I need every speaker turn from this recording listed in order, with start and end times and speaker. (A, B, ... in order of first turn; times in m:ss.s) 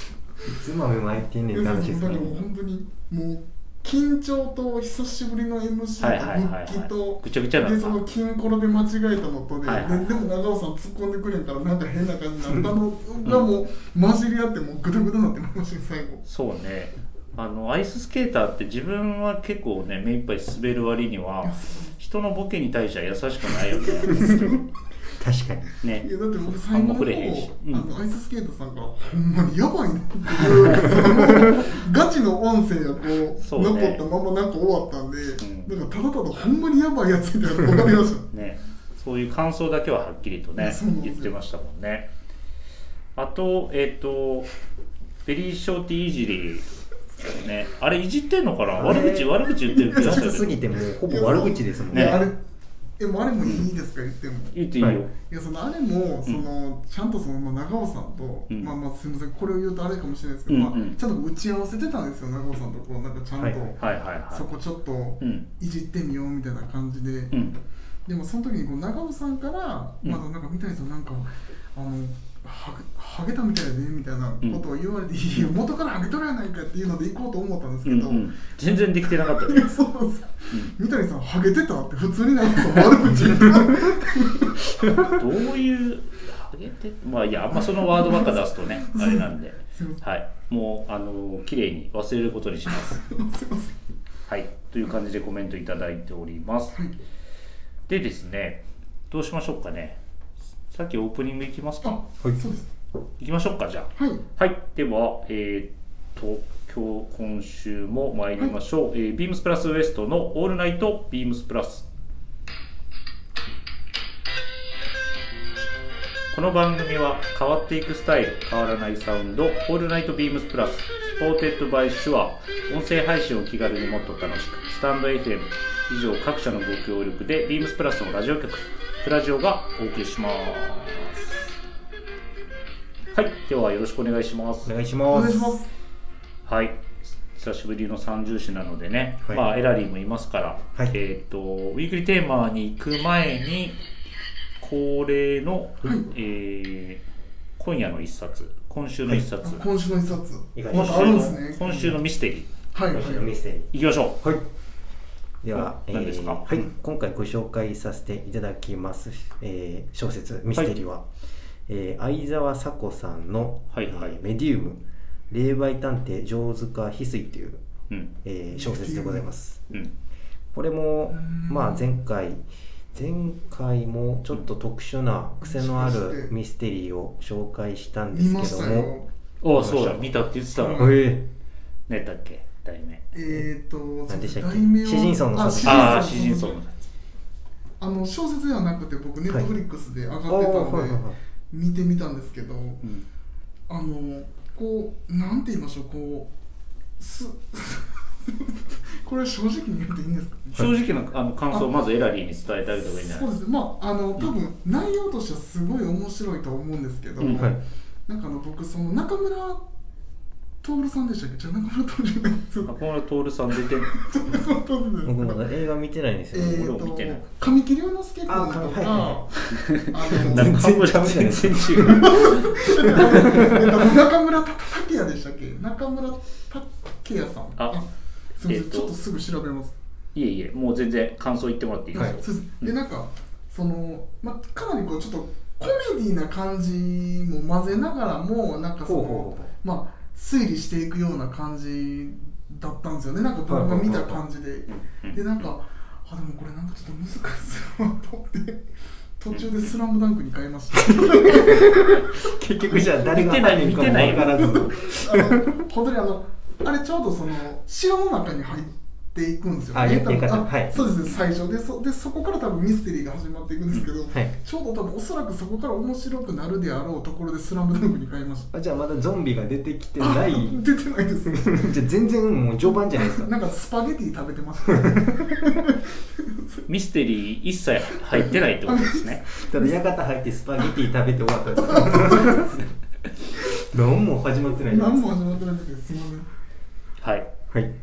0:00.4-0:02.4 A
0:01.5-0:16.2 B
0:06.0-0:08.0 C
0:09.6-0:10.2 C
0:16.2-0:24.6 C
0:21.4-0:22.0 B
0:23.9-0:24.6 B
0:25.2-0:25.7 A
0:25.8-0:26.1 C
0:26.0-0:38.3 B
0:26.7-0:27.9 C
0:31.1-0:31.6 A
0:33.4-0:34.0 C
0:35.4-0:35.7 C
0:38.3-0:42.1 C
0:40.6-0:41.3 B
0:43.2-0:44.5 C
0:45.2-0:46.7 C
0:47.2-0:50.6 C
0:48.7-0:52.3 A
0:49.7-0:50.4 B
0:51.0-0:52.4 B
0:51.9-0:52.2 C
0:53.0-0:54.5 B
0:54.5-0:55.1 C
0:55.1-1:07.3 B
1:00.5-1:01.0 C
1:03.8-1:04.5 C
1:05.2-1:05.5 C
1:07.3-1:07.6 C
1:08.0-1:18.3 B
1:17.8-1:19.7 C
1:19.1-1:24.6 B
1:25.0-1:33.0 C
1:27.5-1:30.0 B
1:32.7-1:33.8 B
1:34.3-1:36.8 C
1:37.9-1:40.0 C
1:40.7-1:42.0 C
1:41.8-1:42.7 B
1:43.2-1:51.9 C
1:44.0-1:44.2 B
1:56.3-2:11.3 C
2:13.1-2:14.7 C
2:14.6-2:15.6 A
2:15.1-2:15.7 B
2:16.4-2:23.8 C
2:24.6-2:27.0 C
2:27.6-2:29.6 C
2:29.4-2:32.0 B
2:30.5-2:31.2 A
2:30.7-2:32.5 C
2:32.7-2:33.3 B
2:32.9-2:34.4 A
2:33.7-2:34.2 C
2:35.4-2:41.0 A
2:35.5-2:36.6 C
2:41.7-2:47.6 A
2:43.7-2:44.2 C
2:48.2-2:49.7 A
2:48.5-2:49.3 B
2:50.5-2:58.9 A
2:51.1-2:51.8 B
2:55.4-2:56.3 B
2:58.1-2:59.1 B
2:59.4-3:01.0 C
2:59.5-3:00.1 A
3:00.6-3:01.0 B
3:00.8-3:01.3 A
3:01.9-3:03.0 C
3:03.1-3:06.6 B
3:04.1-3:06.3 A
3:05.6-3:06.8 C
3:07.8-3:12.8 B
3:10.3-3:11.2 A
3:13.7-3:16.3 B
3:17.0-3:20.7 B
3:20.5-3:23.3 C
3:22.8-3:29.6 B
3:27.2-3:27.5 C
3:27.3-3:27.6 A
3:30.6-3:32.7 B
3:32.6-3:34.0 C
3:33.9-3:35.4 B
3:35.0-3:36.7 A
3:36.3-3:40.6 B
3:36.5-3:37.2 C
3:38.3-3:39.3 A
3:39.5-3:42.5 C
3:40.1-3:43.7 A
3:41.8-3:47.8 B
3:48.4-3:49.7 B
3:48.4-3:48.9 C
3:50.1-3:52.7 C
3:52.0-4:08.6 B
3:58.8-3:59.5 A
4:03.5-4:04.2 A
4:04.7-4:05.2 C
4:09.2-4:12.2 B
4:10.8-4:15.5 A
4:12.8-4:14.4 C
4:13.9-4:28.5 B
4:19.7-4:20.9 A
4:28.5-4:30.6 A
4:30.0-4:31.7 B
4:31.2-4:33.3 A
4:32.7-4:36.6 B
4:34.7-4:35.0 A
4:36.7-4:39.2 C
4:38.6-4:39.8 B
4:39.4-4:42.7 A
4:41.7-4:42.5 B
4:43.4-4:45.0 A
4:44.7-4:46.3 B
4:47.0-4:47.3 C
4:47.5-4:47.7 A